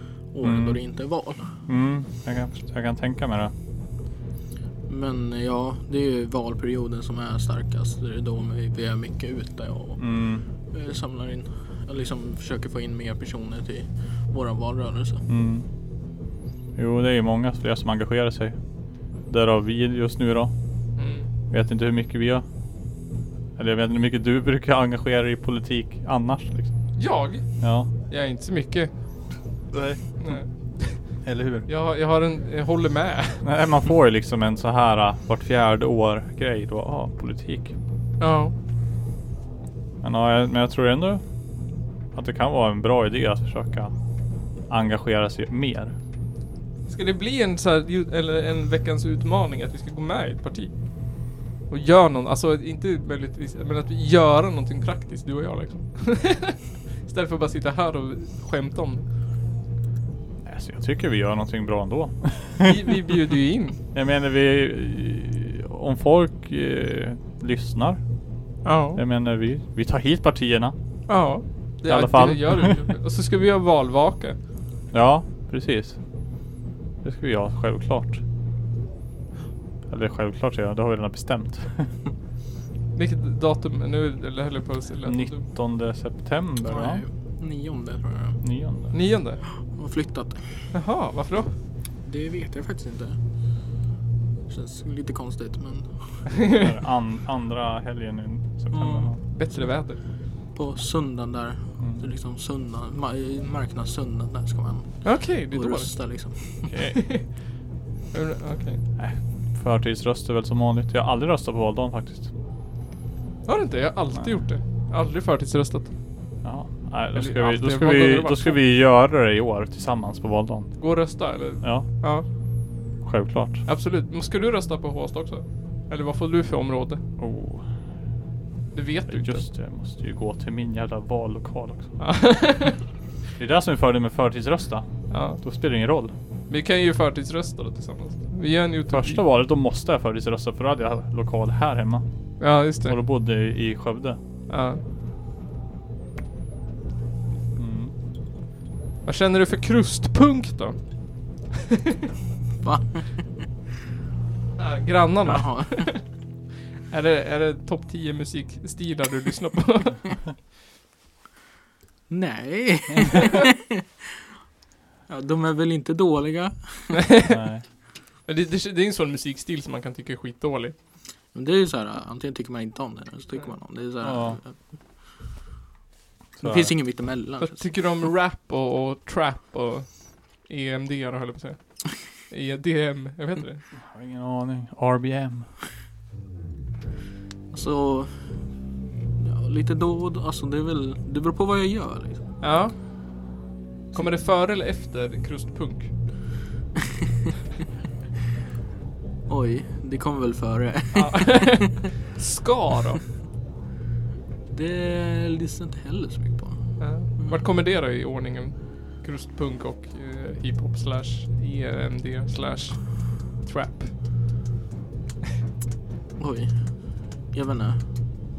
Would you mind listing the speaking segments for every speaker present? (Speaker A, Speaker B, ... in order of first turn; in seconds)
Speaker A: 0.3-1.5, 4.9-10.2, 10.7-15.3, 86.6-88.4, 89.7-90.5, 92.0-93.2, 94.5-95.9, 98.7-99.1, 100.5-106.7, 152.6-153.2, 155.2-155.9, 162.1-163.8, 165.1-167.0, 171.3-174.6, 176.4-177.6, 187.5-188.4, 189.2-192.2, 199.3-201.6, 204.5-207.4, 216.2-217.8
Speaker B: 0.4-0.8, 1.7-3.5, 10.0-10.4, 15.3-15.7, 16.8-18.6, 19.3-20.5, 21.5-22.4, 23.6-26.7, 27.6-27.9, 29.7-30.0, 31.2-31.7, 33.4-37.7, 40.0-41.2, 42.1-43.9, 44.7-45.9, 60.4-63.1, 63.9-68.0, 68.9-70.7, 71.8-72.8, 74.9-76.0, 77.0-78.2, 79.9-81.9, 85.0-87.0, 88.4-88.9, 96.5-99.2, 109.0-112.3, 116.4-120.7, 121.6-121.9, 123.0-123.6, 127.2-127.7, 129.1-132.0, 133.4-136.1, 138.9-142.1, 142.8-144.2, 147.6-147.9, 167.3-167.6, 174.0-174.4, 176.4-176.7, 183.8-185.5
Speaker C: 21.0-21.3, 26.9-28.9, 30.2-31.0, 31.7-33.4, 38.2-38.5, 46.9-50.7, 51.7-59.0, 62.6-63.8, 68.6-69.0, 71.1-74.4, 82.9-85.4, 88.9-89.4, 90.7-91.5, 99.3-100.0, 105.0-107.3, 108.1-108.8, 113.5-115.9, 117.1-118.6, 120.8-122.2, 123.7-127.0, 128.7-129.4, 132.0-132.8, 135.1-135.4, 136.5-139.2, 142.4-143.0, 144.5-144.8, 149.0-150.8, 151.7-152.0, 154.6-156.0, 156.9-160.2, 166.9-167.4, 168.2-170.7, 177.4-183.6, 192.4-192.7, 193.9-195.9, 200.9-203.1, 206.8-213.9